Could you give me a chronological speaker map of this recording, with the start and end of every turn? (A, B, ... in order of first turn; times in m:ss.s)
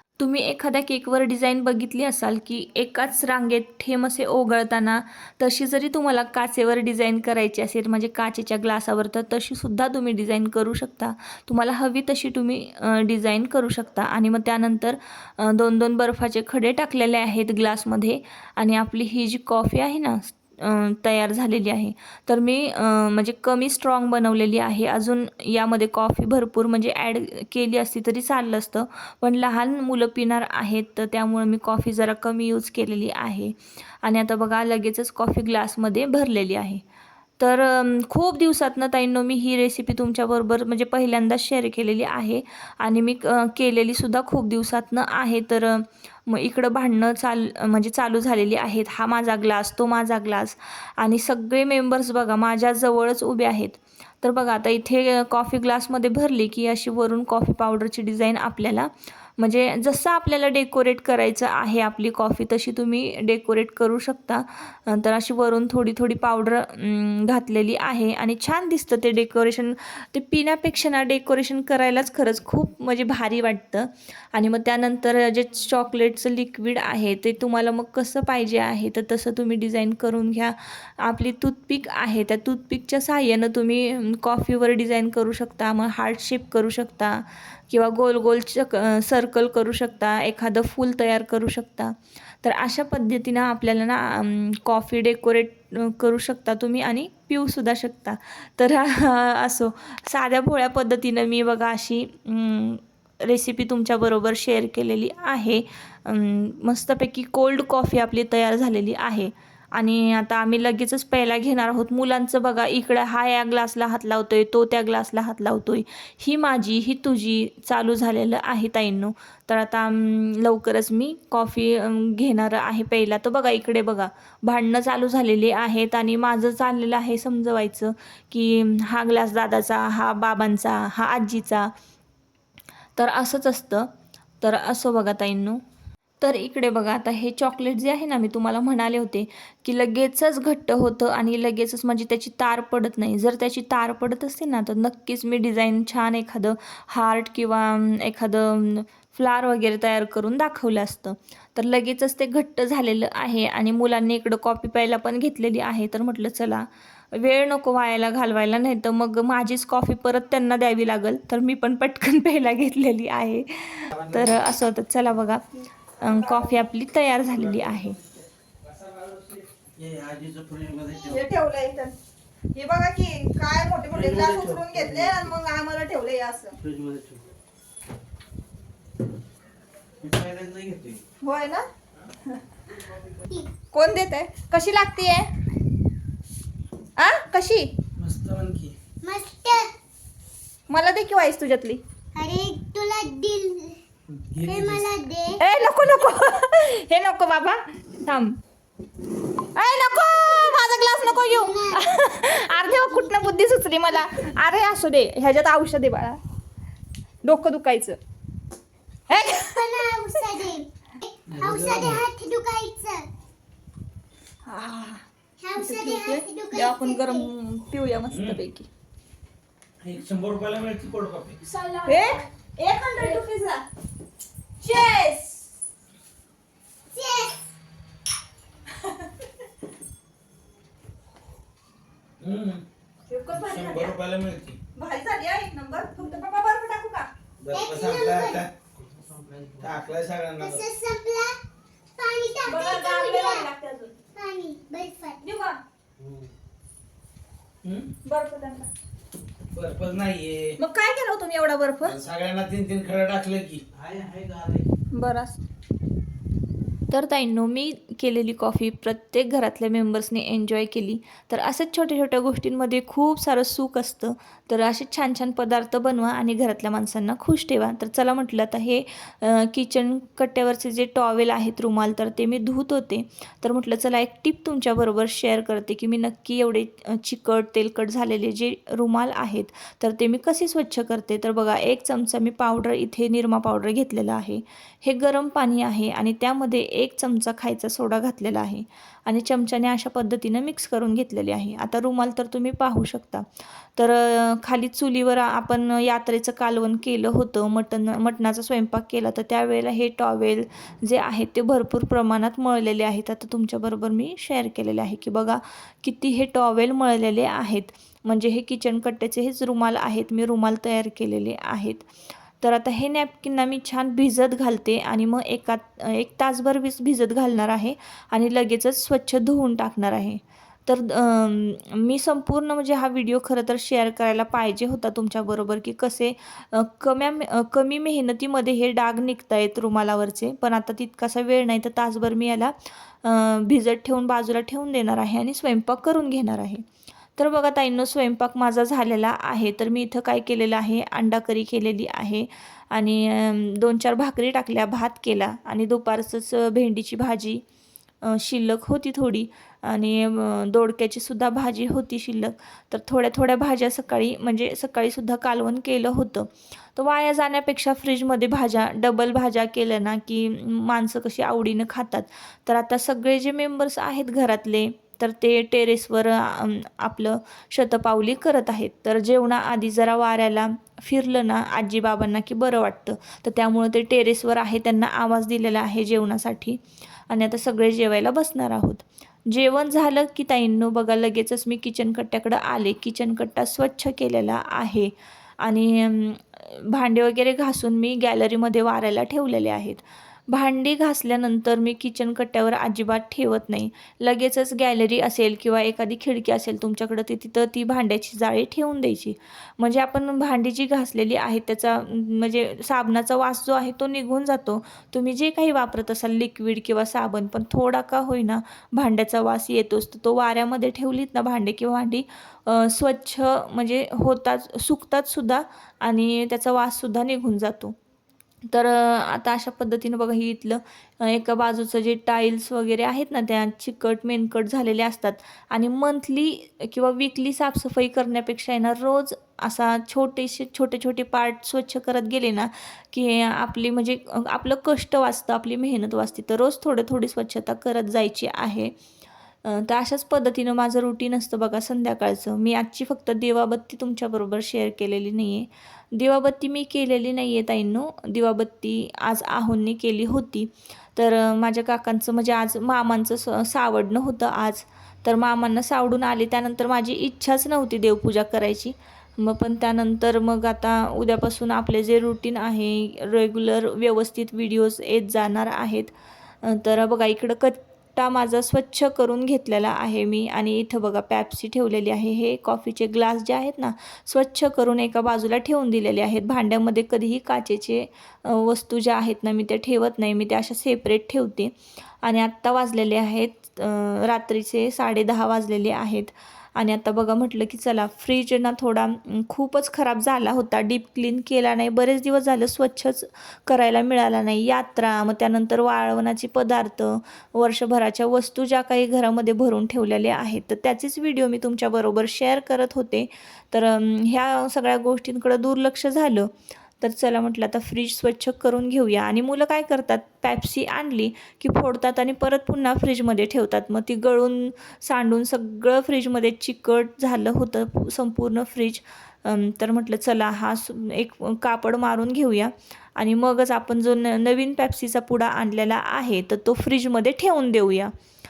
0:00.2-0:36.8 A
0:37.4-2:11.7 A
2:13.0-2:13.9 A
2:14.4-2:15.6 A
2:16.2-2:45.4 A
2:44.0-2:44.3 B
2:46.0-2:48.0 A
2:48.6-2:51.2 B
2:51.1-2:51.9 C
2:52.6-2:56.6 C
2:53.9-2:55.3 B
2:56.6-2:57.2 B
3:00.0-3:01.0 B
3:01.2-3:01.6 C
3:03.3-3:03.5 D
3:03.7-3:05.2 C
3:07.0-3:07.7 C
3:08.0-3:08.8 B
3:09.0-3:09.7 D
3:10.7-3:11.8 C
3:12.1-3:13.8 D
3:14.1-3:14.9 B
3:14.4-3:15.4 D
3:15.4-3:18.3 C
3:19.6-3:26.2 C
3:21.0-3:21.9 D
3:22.5-3:23.4 D
3:27.2-3:28.0 C
3:29.1-3:29.7 C
3:29.1-3:33.1 D
3:31.3-3:32.0 B
3:34.5-3:35.0 A
3:35.4-3:37.3 D
3:35.6-3:38.7 A
3:35.7-3:36.1 C
3:38.1-3:38.4 B
3:39.8-3:41.4 B
3:41.5-3:43.6 C
3:41.8-3:42.2 A
3:44.6-3:45.4 C
3:46.9-3:47.4 D
3:52.2-3:52.6 B
3:53.1-3:54.0 C
3:53.3-3:54.6 B
3:54.8-3:57.1 C
3:57.4-4:00.7 B
3:57.5-3:58.4 D
4:00.4-4:01.4 D
4:02.0-4:03.5 D
4:02.5-4:03.8 A
4:02.5-4:03.9 C
4:04.1-4:05.3 D
4:05.3-4:05.6 C
4:07.6-4:07.9 B
4:08.1-4:08.6 C
4:08.1-4:08.6 A
4:09.5-4:10.6 B
4:10.6-4:11.9 C
4:10.7-4:11.7 A
4:11.8-4:14.7 B
4:15.0-4:15.3 A
4:15.0-4:15.3 C
4:16.9-5:11.8 A
5:12.4-5:36.6 A
5:37.2-5:47.4 A
5:48.0-6:57.8 A
6:58.5-7:18.7 A
7:19.4-8:26.3 A
8:26.8-8:47.9 A